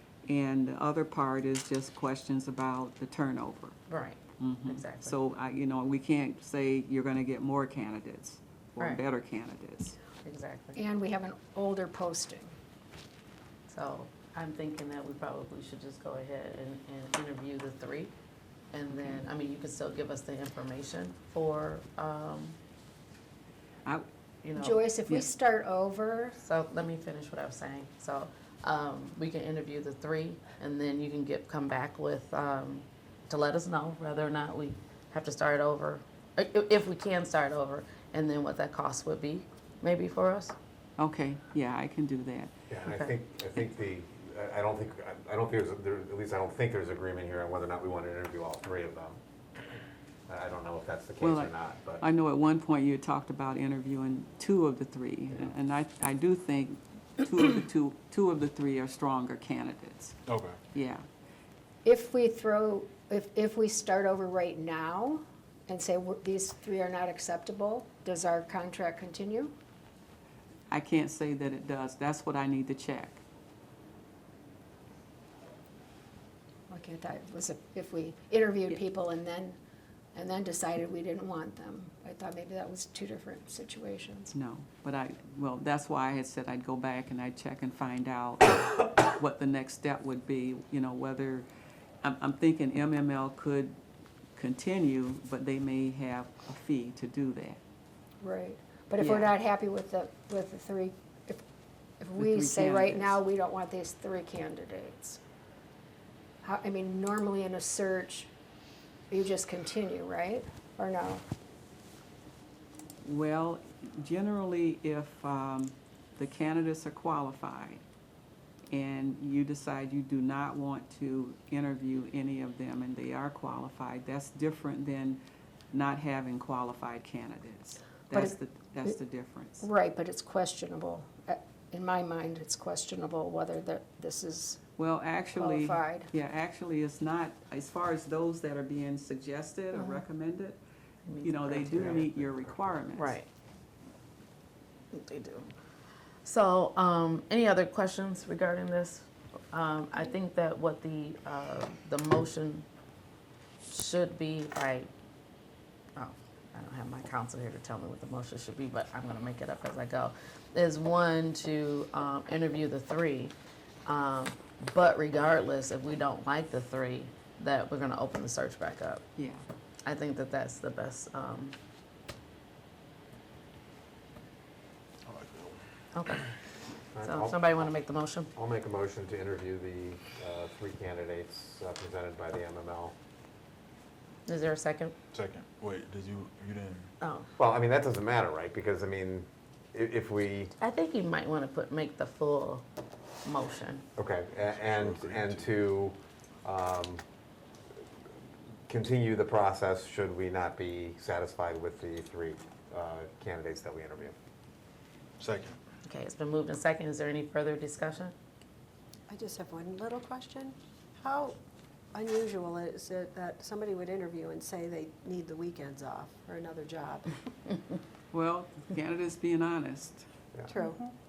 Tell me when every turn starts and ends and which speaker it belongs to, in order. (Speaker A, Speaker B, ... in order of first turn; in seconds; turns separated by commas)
Speaker A: 0.3-3.8, Speaker B: 3.9-5.2, Speaker A: 4.4-10.0, Speaker B: 10.2-10.8, Speaker C: 10.8-12.5, Speaker B: 13.7-18.1, Speaker B: 18.7-22.6, Speaker B: 24.4-24.9, Speaker C: 24.6-26.4, Speaker B: 26.4-40.5, Speaker A: 41.0-42.5, Speaker D: 42.7-49.2, Speaker D: 50.3-52.0, Speaker A: 51.2-60.2, Speaker E: 60.3-60.6, Speaker A: 60.7-61.0, Speaker C: 61.8-69.6, Speaker A: 70.7-73.2, Speaker C: 76.7-79.6, Speaker C: 80.1-84.3, Speaker A: 84.3-91.5, Speaker A: 92.0-93.8, Speaker A: 94.4-97.6, Speaker C: 98.2-101.4, Speaker A: 99.0-99.3, Speaker C: 102.0-105.2, Speaker A: 102.2-103.2, Speaker C: 106.4-108.3, Speaker C: 109.1-111.2, Speaker A: 113.0-117.8, Speaker A: 118.7-125.2, Speaker A: 125.7-129.7, Speaker C: 129.6-134.6, Speaker A: 134.8-140.6, Speaker C: 135.4-136.1, Speaker C: 139.8-140.0, Speaker B: 141.1-142.1, Speaker A: 141.2-143.2, Speaker B: 142.9-143.3, Speaker B: 144.9-145.5, Speaker B: 146.2-152.7, Speaker B: 153.7-154.9, Speaker B: 156.0-169.0, Speaker A: 169.2-169.4, Speaker B: 169.8-171.6, Speaker E: 175.1-175.6, Speaker B: 175.9-176.2, Speaker D: 176.9-177.7, Speaker B: 177.0-178.3, Speaker D: 178.4-182.9, Speaker B: 184.3-184.9, Speaker E: 185.1-186.9, Speaker B: 187.0-187.3, Speaker D: 187.4-190.5, Speaker B: 190.6-192.7, Speaker B: 193.2-193.9, Speaker D: 194.0-197.0, Speaker E: 194.4-195.5, Speaker D: 198.7-204.2, Speaker E: 205.2-205.6, Speaker B: 205.8-208.1, Speaker F: 209.1-211.4, Speaker F: 211.9-217.1, Speaker A: 218.1-220.1, Speaker F: 220.5-220.9